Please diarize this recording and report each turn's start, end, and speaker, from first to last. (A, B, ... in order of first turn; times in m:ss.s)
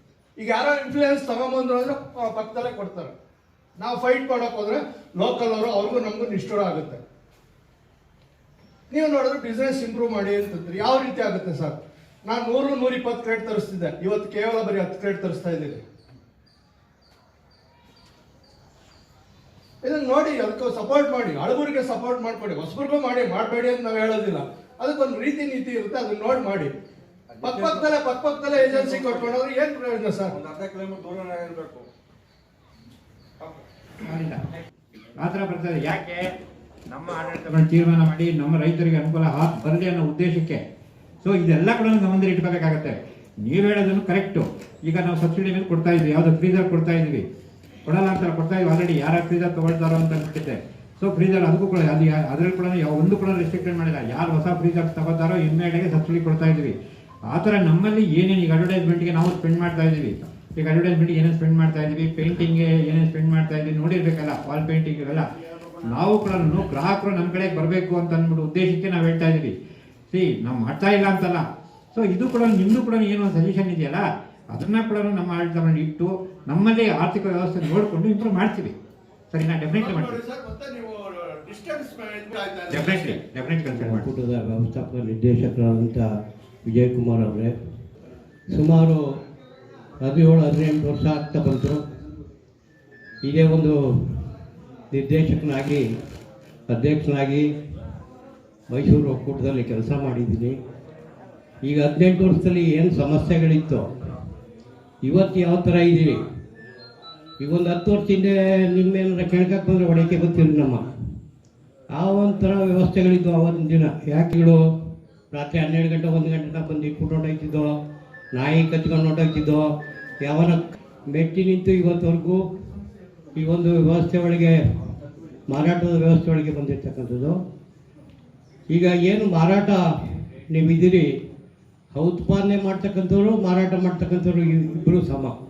0:00.4-0:03.1 A
0:03.8-0:07.0 A
0:08.9-0:15.8 A
0:19.8-0:26.7 A
0:27.4-0:29.4 B
0:27.4-0:30.3 A
0:30.3-0:31.8 B
0:34.0-0:34.4 C
0:35.2-0:36.3 C
0:36.9-0:40.6 C
0:41.2-0:47.2 C
0:47.8-0:56.7 C
0:57.3-1:05.2 C
1:05.8-1:09.5 C
1:10.1-1:18.7 C
1:19.3-1:20.2 C
1:19.7-1:23.2 A
1:22.7-1:24.1 C
1:23.7-1:26.1 D
1:26.7-1:27.5 D
1:28.5-1:29.0 D
1:30.0-1:31.8 D
1:33.2-1:34.3 D
1:34.9-1:35.8 D
1:36.7-1:37.5 D
1:38.7-1:40.6 D
1:41.6-1:43.8 D
1:45.0-1:46.2 D
1:47.4-1:50.8 D
1:51.9-1:54.6 D
1:55.3-1:57.8 D
1:58.3-1:59.7 D
2:00.2-2:02.4 D
2:03.3-2:04.6 D
2:05.5-2:07.4 D
2:08.7-2:09.8 D
2:10.5-2:11.1 D
2:11.9-2:15.3 D